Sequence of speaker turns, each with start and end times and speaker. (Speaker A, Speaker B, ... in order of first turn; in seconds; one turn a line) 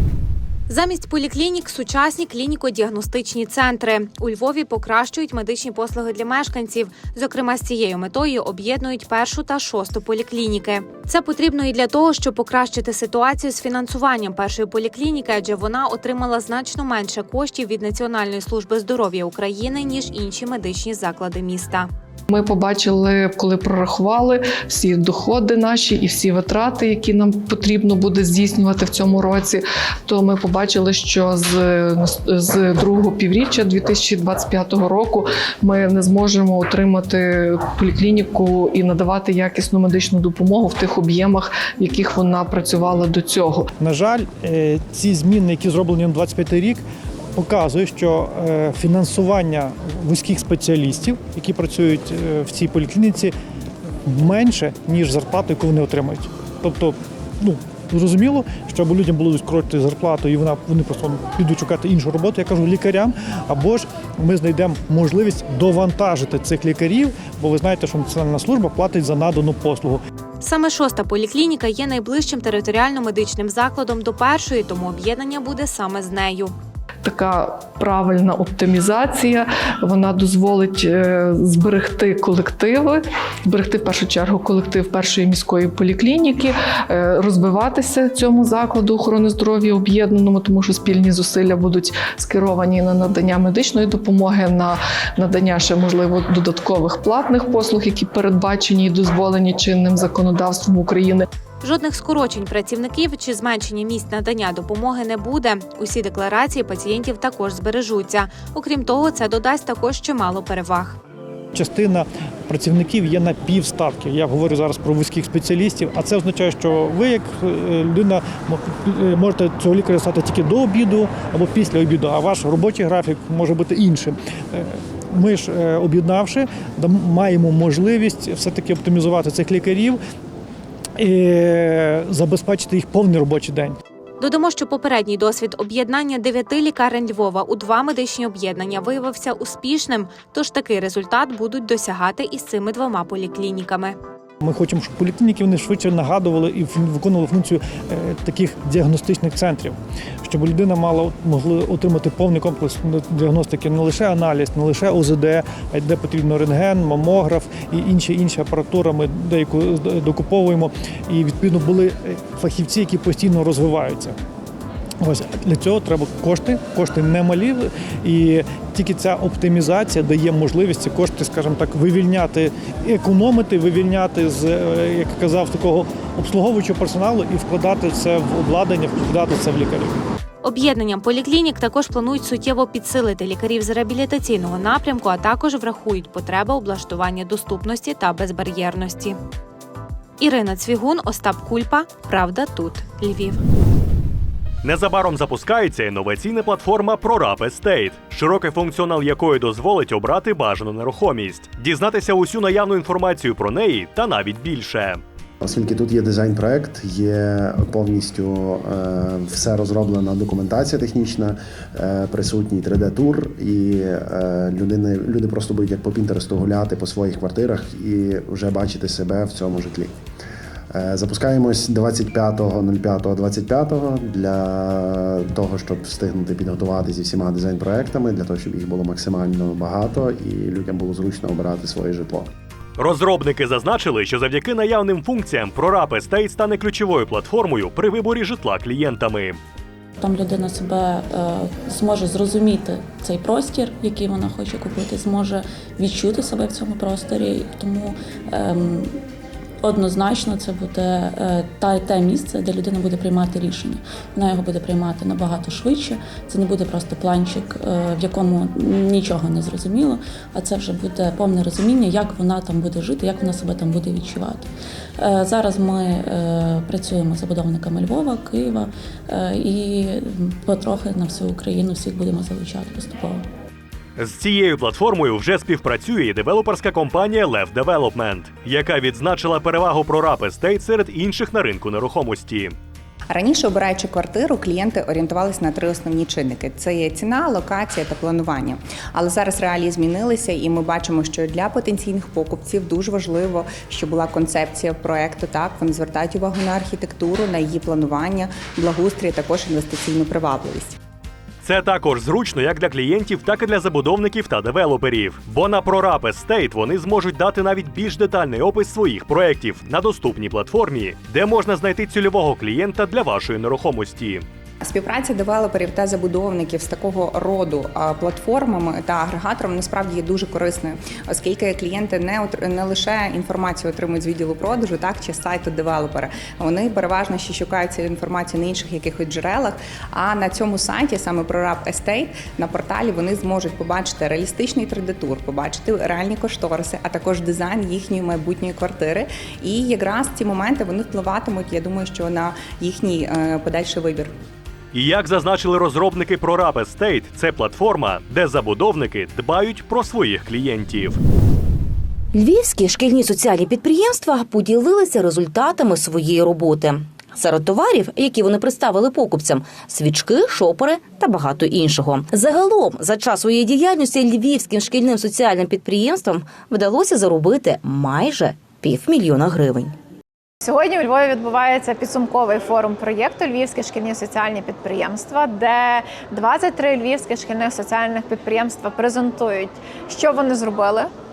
Speaker A: 0.7-21.9
Speaker B: 22.3-43.7
Speaker C: 43.8-46.8
Speaker C: 47.4-53.3
Speaker C: 54.1-70.0
Speaker A: 70.4-76.5
Speaker B: 77.0-101.3
Speaker A: 101.6-111.0
Speaker C: 111.5-130.0
Speaker C: 131.0-133.8
Speaker A: 134.2-144.0
Speaker C: 144.4-164.1
Speaker C: 165.0-180.0
Speaker A: 180.4-189.2
Speaker A: 190.2-193.4
Speaker D: 194.6-205.0
Speaker E: 205.4-219.9
Speaker E: 220.7-232.3
Speaker D: 232.8-239.4
Speaker F: 240.0-248.9
Speaker F: 249.6-264.5
Speaker F: 265.0-273.2
Speaker D: 274.0-282.6
Speaker G: 283.1-300.8
Speaker D: 301.4-314.2
Speaker G: 314.6-344.1
Speaker D: 344.7-351.0
Speaker H: 352.1-369.7
Speaker I: 370.4-380.9